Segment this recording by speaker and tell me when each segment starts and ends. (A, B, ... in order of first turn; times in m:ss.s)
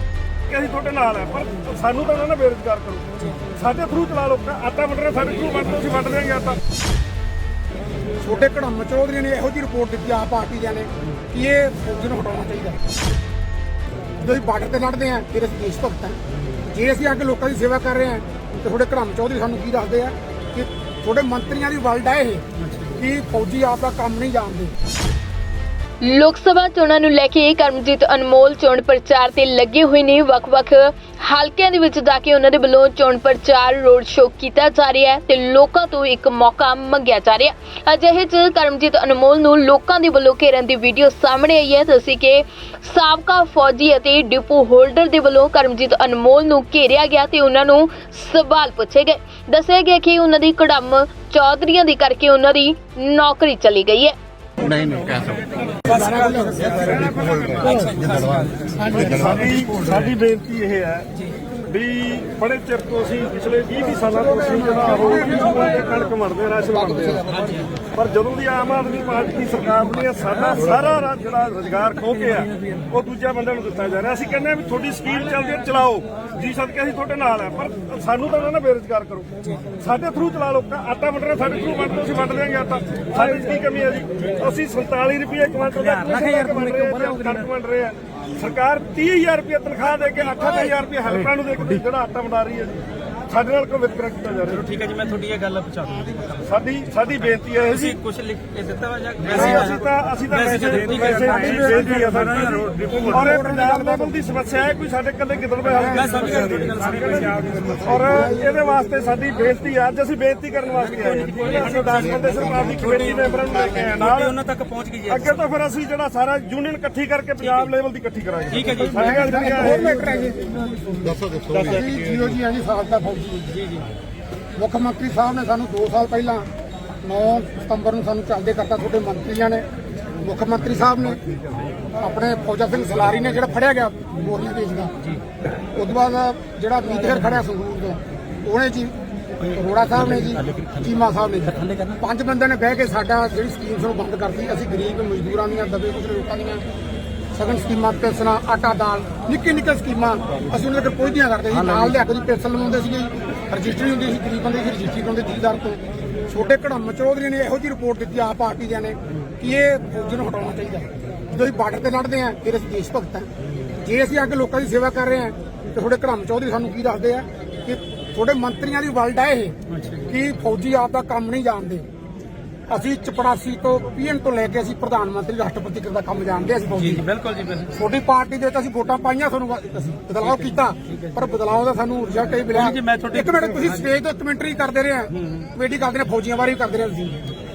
0:00.5-0:06.6 A
0:08.2-0:12.8 B
0:14.2-0:24.7 B
0:26.0-0:54.1 C
0:54.7-0:55.4 D
0:55.8-0:57.3 B
0:57.2-0:57.8 A
0:57.4-0:58.5 D
0:58.9-1:01.1 A
1:01.6-1:07.4 A
1:04.0-1:05.8 B
1:07.9-1:34.8 A
1:26.0-1:26.9 D
1:34.7-1:36.4 D
1:36.4-1:38.0 A
1:37.9-1:39.8 D
1:39.2-1:54.4 A
1:40.5-1:43.0 D
1:43.1-1:44.2 B
1:46.1-1:47.7 D
1:54.0-1:55.1 D
1:55.0-1:59.9 A
1:58.8-2:03.7 B
2:01.3-2:01.7 D
2:04.6-2:06.5 B
2:07.0-2:09.6 B
2:10.2-2:11.2 B
2:11.9-2:14.9 B
2:15.7-2:26.6 B
2:27.3-2:51.8 B
2:52.7-2:57.1 B
2:56.9-2:57.7 D
2:57.7-3:07.2 B
3:02.7-3:03.6 D